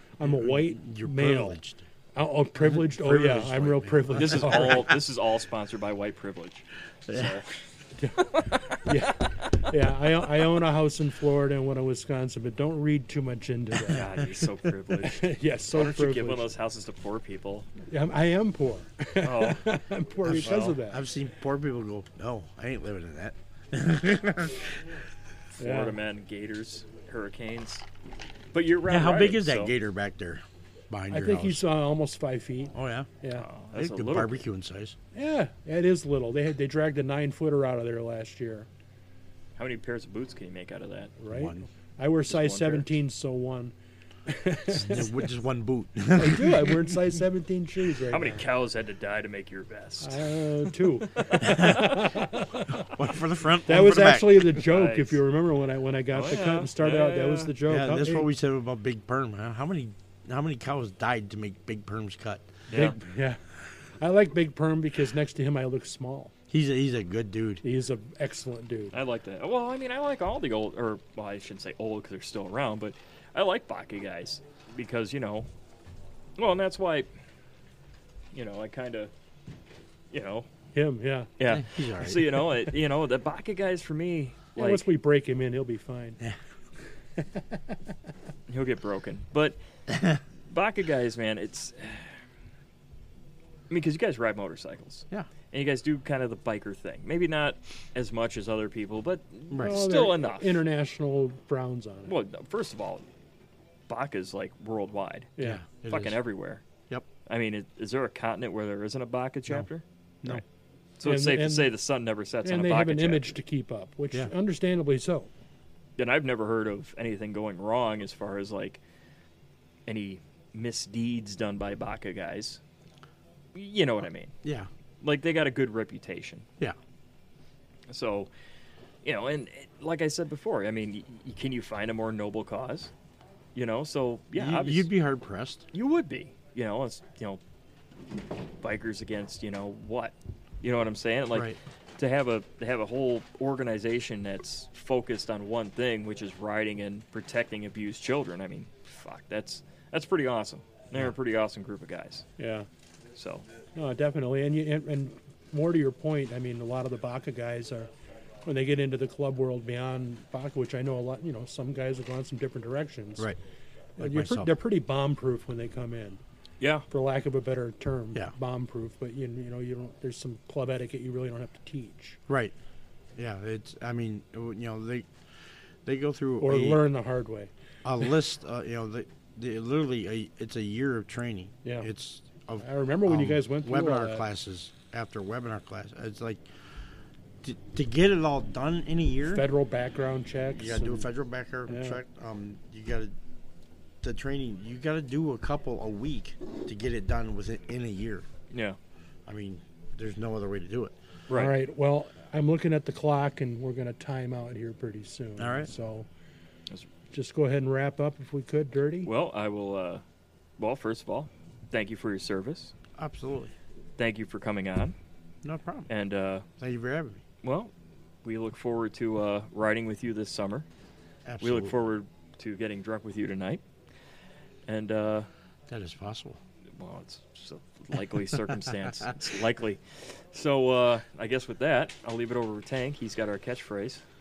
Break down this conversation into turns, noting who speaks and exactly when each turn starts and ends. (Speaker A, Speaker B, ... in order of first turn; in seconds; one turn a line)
Speaker A: 0.2-1.6
Speaker B: 0.2-1.9
Speaker A: 2.1-4.9
Speaker B: 2.6-5.0
Speaker C: 4.2-7.5
Speaker B: 7.1-7.4
Speaker A: 8.0-14.1
Speaker C: 13.8-17.7
Speaker A: 15.0-16.5
Speaker A: 17.8-21.0
Speaker C: 19.2-19.7
Speaker B: 20.2-25.0
Speaker C: 20.3-20.8
Speaker C: 25.6-27.9
Speaker A: 25.6-26.0
Speaker C: 28.5-29.7
Speaker B: 28.9-31.6
Speaker A: 31.1-33.5
Speaker B: 32.7-33.1
Speaker C: 33.3-34.4
Speaker B: 33.7-35.0
Speaker A: 35.1-38.7
Speaker C: 39.6-41.1
Speaker A: 41.2-43.7
Speaker B: 41.3-41.6
Speaker C: 42.3-42.9
Speaker A: 44.3-45.2
Speaker B: 44.7-46.9
Speaker A: 46.1-48.4
Speaker C: 48.1-52.1
Speaker A: 50.0-52.9
Speaker B: 51.4-51.9
Speaker B: 52.7-54.5
Speaker A: 53.6-58.3
Speaker C: 54.5-55.2
Speaker C: 56.1-57.6
Speaker B: 57.7-62.6
Speaker C: 62.7-63.0
Speaker A: 62.7-63.4
Speaker A: 64.0-66.3
Speaker B: 66.5-67.6
Speaker A: 67.6-69.0
Speaker C: 68.9-75.5
Speaker C: 76.4-77.1
Speaker C: 78.3-79.1
Speaker C: 80.1-80.5
Speaker A: 80.8-81.3
Speaker C: 81.4-84.9
Speaker B: 81.4-82.4
Speaker A: 84.6-86.2
Speaker A: 87.2-87.8
Speaker C: 88.5-89.6
Speaker B: 89.9-90.2
Speaker C: 90.5-92.2
Speaker C: 93.7-100.6
Speaker B: 99.5-99.9
Speaker A: 99.6-102.2
Speaker C: 102.1-103.0
Speaker C: 103.9-105.3
Speaker A: 105.4-105.6
Speaker B: 105.4-106.2
Speaker C: 105.9-106.6
Speaker C: 107.3-110.4
Speaker C: 111.0-113.4
Speaker A: 111.0-111.7
Speaker A: 112.4-115.3
Speaker C: 116.0-118.8
Speaker C: 119.9-122.6
Speaker C: 123.5-124.3
Speaker B: 124.4-124.7
Speaker C: 125.0-126.5
Speaker C: 127.9-128.3
Speaker C: 129.0-132.9
Speaker C: 133.6-134.9
Speaker B: 134.4-135.7
Speaker C: 135.7-137.4
Speaker C: 138.6-152.3
Speaker A: 152.4-152.7
Speaker C: 153.1-153.5
Speaker A: 153.8-157.9
Speaker A: 158.4-163.3
Speaker B: 164.0-164.5
Speaker A: 164.0-166.2
Speaker C: 166.6-166.8
Speaker A: 166.9-172.2
Speaker B: 172.3-172.5
Speaker B: 173.2-175.1
Speaker B: 175.8-176.8
Speaker A: 176.4-177.5
Speaker B: 177.8-186.5
Speaker A: 182.6-184.3
Speaker B: 187.4-189.5
Speaker A: 189.3-191.1
Speaker B: 190.6-193.2
Speaker A: 191.7-192.0
Speaker B: 194.0-198.3
Speaker C: 198.5-198.8
Speaker B: 199.3-201.0
Speaker C: 201.3-201.6
Speaker A: 201.3-206.1
Speaker B: 205.4-205.7
Speaker A: 207.1-209.1
Speaker C: 209.0-210.0
Speaker C: 210.6-212.7
Speaker B: 213.0-213.5
Speaker C: 214.0-214.9
Speaker B: 215.4-215.9
Speaker C: 215.9-216.5
Speaker B: 216.6-217.2
Speaker C: 217.4-217.7
Speaker C: 218.2-220.7
Speaker B: 221.3-221.8
Speaker C: 221.4-223.6
Speaker C: 224.7-225.3
Speaker B: 225.7-226.4
Speaker C: 226.8-234.0
Speaker B: 228.7-229.1